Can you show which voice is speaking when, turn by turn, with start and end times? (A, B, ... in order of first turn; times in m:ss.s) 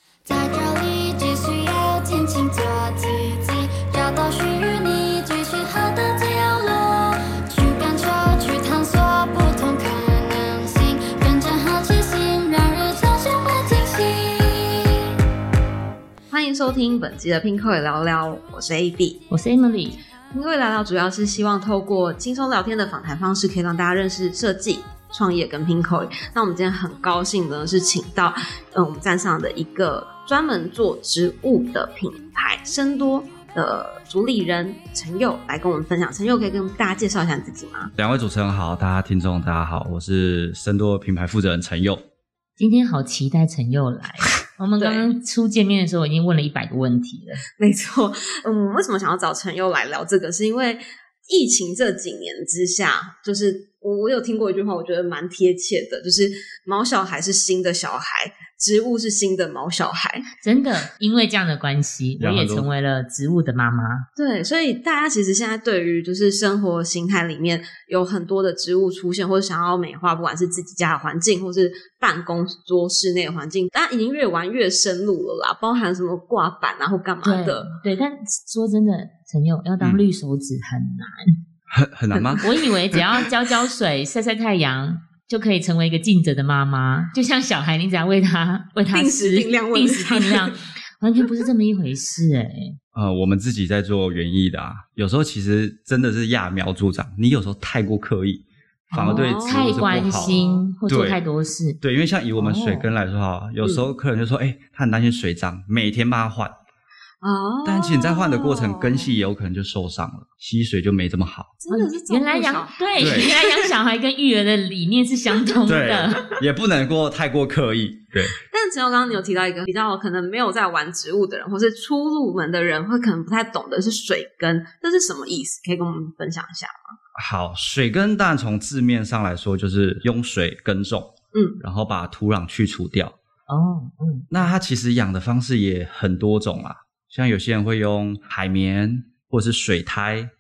0:00.2-0:15.1 A
0:16.3-0:19.2 B
0:19.3-0:20.0 C
0:20.3-0:37.9 B
0:38.0-0:42.0 D
0:42.6-0:47.4 C
0:44.8-0:45.0 B
0:47.6-1:00.3 B
1:00.3-1:04.1 C
1:02.2-1:02.7 D
1:04.2-1:17.8 B
1:17.2-1:21.4 C
1:19.8-1:20.0 D
1:21.7-1:23.0 D
1:22.1-1:22.4 B
1:22.4-1:32.8 C
1:28.9-1:30.6 B
1:32.9-1:41.2 D
1:38.9-1:41.8 C
1:39.0-1:40.6 B
1:41.8-1:46.5 D
1:42.4-1:42.9 C
1:47.2-1:49.1 B
1:47.6-1:51.6 D
1:51.6-1:53.7 B
1:51.7-1:56.3 C
1:53.0-1:53.3 D
1:55.6-1:58.4 D
1:58.4-2:07.0 B
2:07.2-2:13.2 D
2:11.3-2:11.6 B
2:13.5-2:14.5 C
2:14.3-2:20.3 D